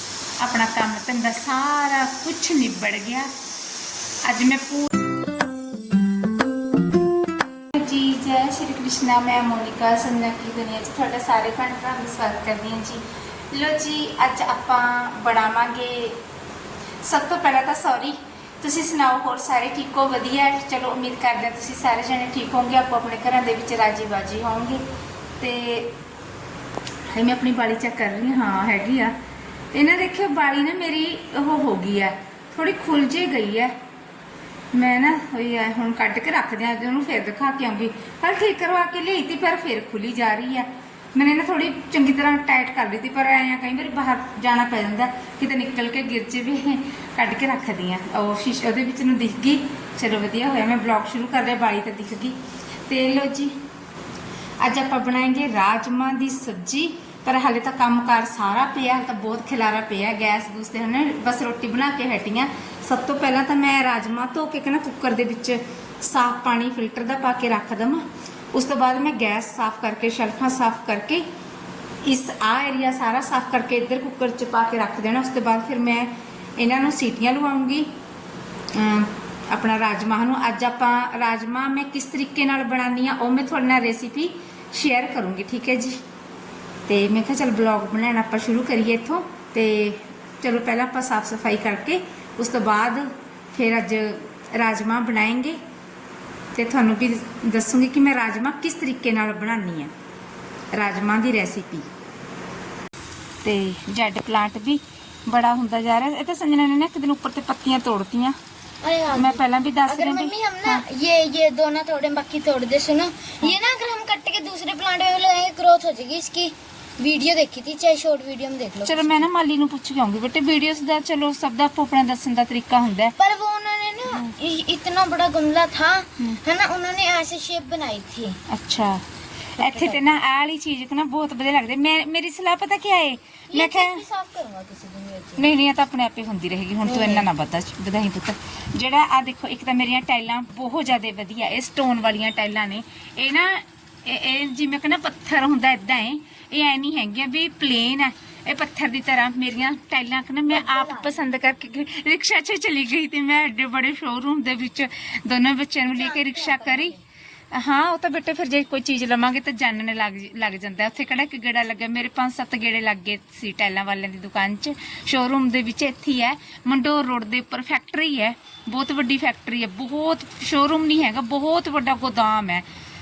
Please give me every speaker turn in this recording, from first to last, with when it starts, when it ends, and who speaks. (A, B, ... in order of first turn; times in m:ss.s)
0:00.4-0:03.3 A
0:04.2-0:05.0 A
0:07.7-0:16.2 A
0:17.0-0:24.8 A
0:25.4-0:25.9 A
0:27.1-0:29.1 A
0:29.7-0:33.7 A
0:34.7-0:52.4 A
0:52.9-0:53.5 A
0:54.6-1:11.2 A
1:12.0-1:17.9 A
1:18.7-1:26.0 A
1:26.9-1:35.6 A
1:36.5-1:39.9 A
1:40.7-1:41.9 A
1:43.4-1:48.4 A
1:48.8-1:59.2 B
1:49.1-1:50.8 A
1:58.8-2:03.2 A
2:03.2-2:08.4 B
2:08.5-2:09.0 A
2:09.6-2:14.0 A
2:09.6-2:10.0 B
2:13.5-2:15.4 B
2:15.4-2:37.0 A
2:16.8-2:17.2 B
2:30.5-2:31.2 B
2:35.9-2:37.0 B
2:37.5-2:52.6 A